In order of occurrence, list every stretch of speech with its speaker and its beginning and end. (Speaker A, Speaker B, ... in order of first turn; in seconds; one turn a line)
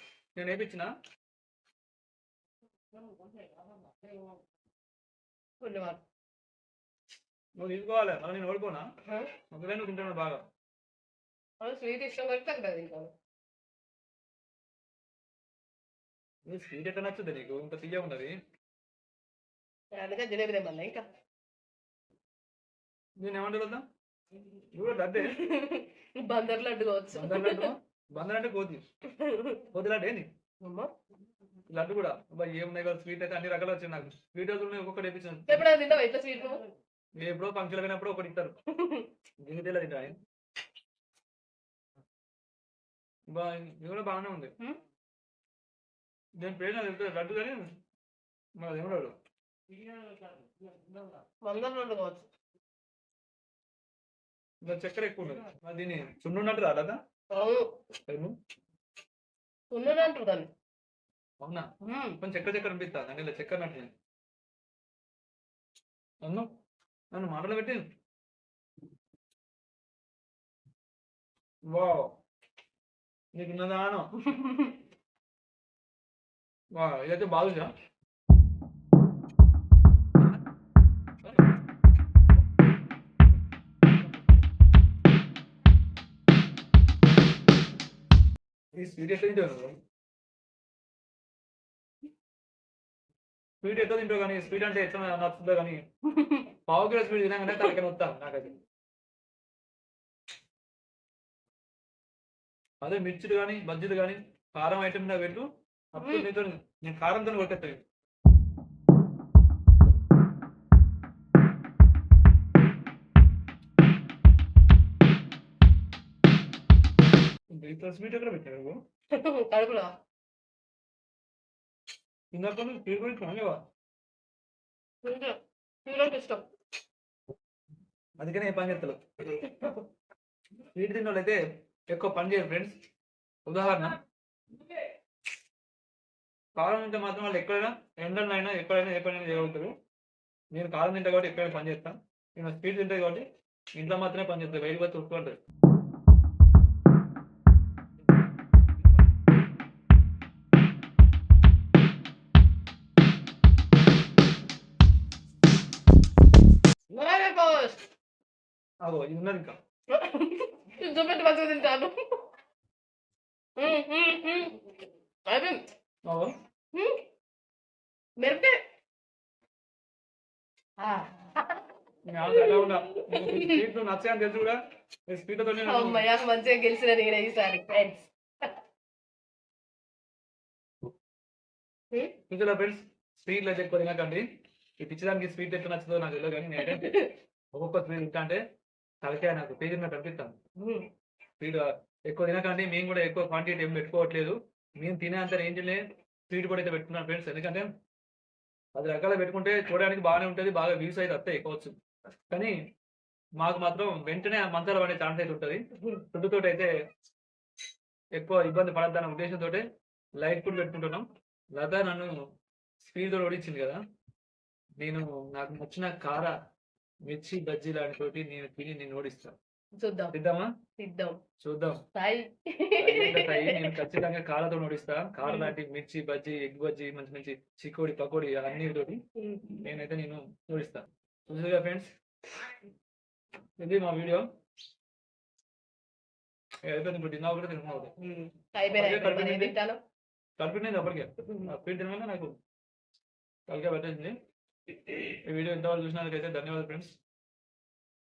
Speaker A: 0.3-0.9
Speaker B: 5.6-6.0
Speaker A: 7.6-8.9
Speaker A: 9.5-10.4
Speaker B: 11.6-13.1
Speaker A: 16.5-18.3
Speaker B: 19.9-21.0
Speaker A: 23.2-23.8
Speaker A: 24.7-25.4
Speaker B: 25.2-27.7
Speaker A: 27.1-28.8
Speaker B: 29.2-29.6
Speaker A: 29.7-30.3
Speaker B: 30.6-30.9
Speaker A: 31.7-35.7
Speaker B: 35.5-36.6
Speaker A: 37.2-38.5
Speaker B: 38.8-39.1
Speaker A: 39.4-40.1
Speaker A: 43.3-44.5
Speaker A: 46.4-47.6
Speaker A: 48.6-49.1
Speaker B: 51.4-52.3
Speaker A: 54.6-57.0
Speaker B: 57.3-57.7
Speaker A: 58.1-58.3
Speaker B: 59.7-60.5
Speaker B: 61.8-62.2
Speaker A: 62.2-63.9
Speaker A: 66.2-66.5
Speaker A: 67.1-67.8
Speaker A: 71.7-72.1
Speaker A: 73.3-74.1
Speaker A: 76.7-77.7
Speaker A: 88.7-89.7
Speaker A: 93.6-95.8
Speaker B: 96.1-96.5
Speaker A: 96.7-98.6
Speaker A: 102.8-107.8
Speaker B: 106.0-106.3
Speaker A: 117.5-118.8
Speaker B: 119.2-119.9
Speaker A: 122.3-123.6
Speaker B: 125.0-126.4
Speaker A: 128.2-129.5
Speaker A: 130.7-132.7
Speaker A: 133.4-134.0
Speaker A: 136.6-139.7
Speaker A: 140.5-145.4
Speaker B: 156.9-157.8
Speaker A: 158.8-159.6
Speaker B: 159.9-161.9
Speaker B: 163.6-164.7
Speaker B: 165.3-165.6
Speaker A: 166.0-166.3
Speaker B: 166.7-167.0
Speaker B: 168.2-168.5
Speaker B: 170.8-171.6
Speaker A: 172.1-176.1
Speaker B: 172.2-173.6
Speaker B: 175.6-178.5
Speaker A: 182.3-184.2
Speaker A: 184.8-186.9
Speaker B: 186.6-187.2
Speaker A: 187.5-188.4
Speaker A: 189.0-190.3
Speaker B: 190.6-190.8
Speaker A: 191.4-197.7
Speaker A: 198.7-201.7
Speaker A: 202.3-202.5
Speaker A: 203.4-205.6
Speaker A: 206.1-206.7
Speaker A: 208.2-209.6
Speaker A: 210.2-212.1
Speaker A: 212.8-213.8
Speaker A: 214.8-216.3
Speaker A: 217.1-219.3
Speaker B: 219.8-220.1
Speaker A: 220.1-220.5
Speaker B: 220.8-221.2
Speaker A: 221.4-221.8
Speaker B: 221.9-223.8
Speaker A: 222.8-229.0
Speaker B: 225.2-225.5
Speaker B: 229.2-229.7
Speaker A: 229.6-231.9
Speaker A: 233.6-234.2
Speaker A: 236.6-237.9
Speaker B: 238.0-239.8
Speaker A: 238.7-239.6
Speaker A: 240.4-242.3
Speaker B: 241.2-241.5
Speaker A: 243.5-244.1
Speaker A: 244.7-246.9